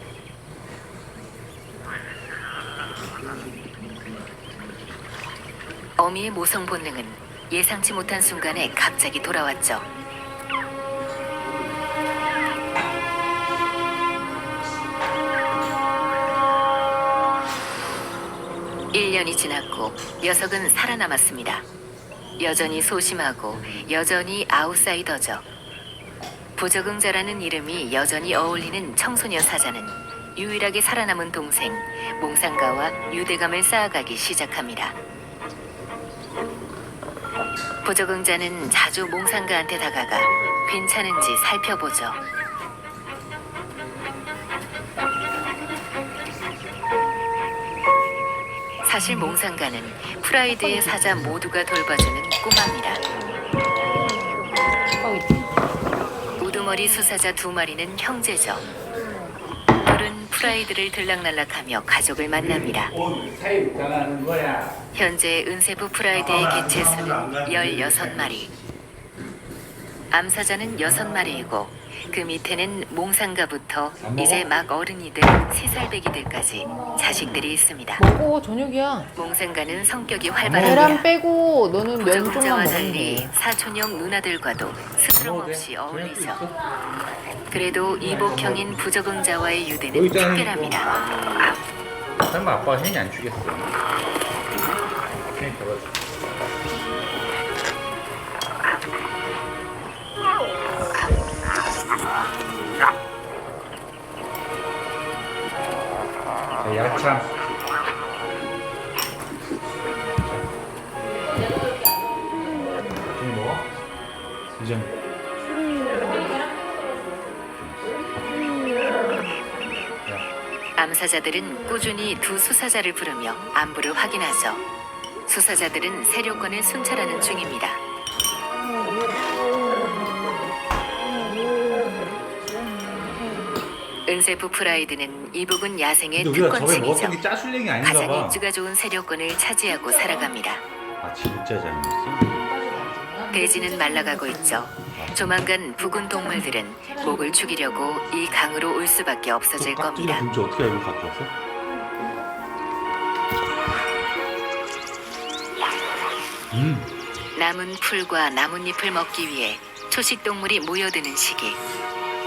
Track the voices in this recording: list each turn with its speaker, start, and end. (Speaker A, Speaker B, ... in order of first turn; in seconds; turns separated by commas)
Speaker A: 6.0-9.9, Speaker A: 18.9-21.6, Speaker A: 22.4-25.4, Speaker A: 26.6-35.0, Speaker A: 37.8-42.2, Speaker A: 48.8-53.0, Speaker B: 50.5-51.1, Speaker B: 55.0-55.6, Speaker A: 56.4-58.6, Speaker A: 59.8-62.9, Speaker C: 62.4-64.8, Speaker A: 64.9-68.5, Speaker C: 66.1-68.5, Speaker A: 70.1-78.0, Speaker C: 74.0-74.5, Speaker B: 78.0-79.1, Speaker A: 79.2-81.1, Speaker C: 80.4-81.0, Speaker B: 80.6-83.3, Speaker A: 82.0-86.5, Speaker C: 85.1-86.6, Speaker A: 87.5-91.0, Speaker C: 88.0-88.8, Speaker C: 89.9-90.9, Speaker C: 92.2-93.7, Speaker C: 95.3-96.0, Speaker C: 106.6-107.3, Speaker C: 110.2-110.5, Speaker C: 113.1-113.7, Speaker C: 114.5-115.0, Speaker B: 116.0-117.2, Speaker C: 117.5-118.2, Speaker A: 120.8-124.6, Speaker A: 125.3-127.8, Speaker A: 134.1-137.2, Speaker C: 136.1-138.4, Speaker A: 137.8-140.6, Speaker C: 141.0-142.3, Speaker B: 142.2-144.7, Speaker A: 143.3-150.2, Speaker C: 144.9-145.5, Speaker B: 145.8-148.4, Speaker C: 149.6-151.3, Speaker C: 156.5-156.9, Speaker A: 157.3-161.6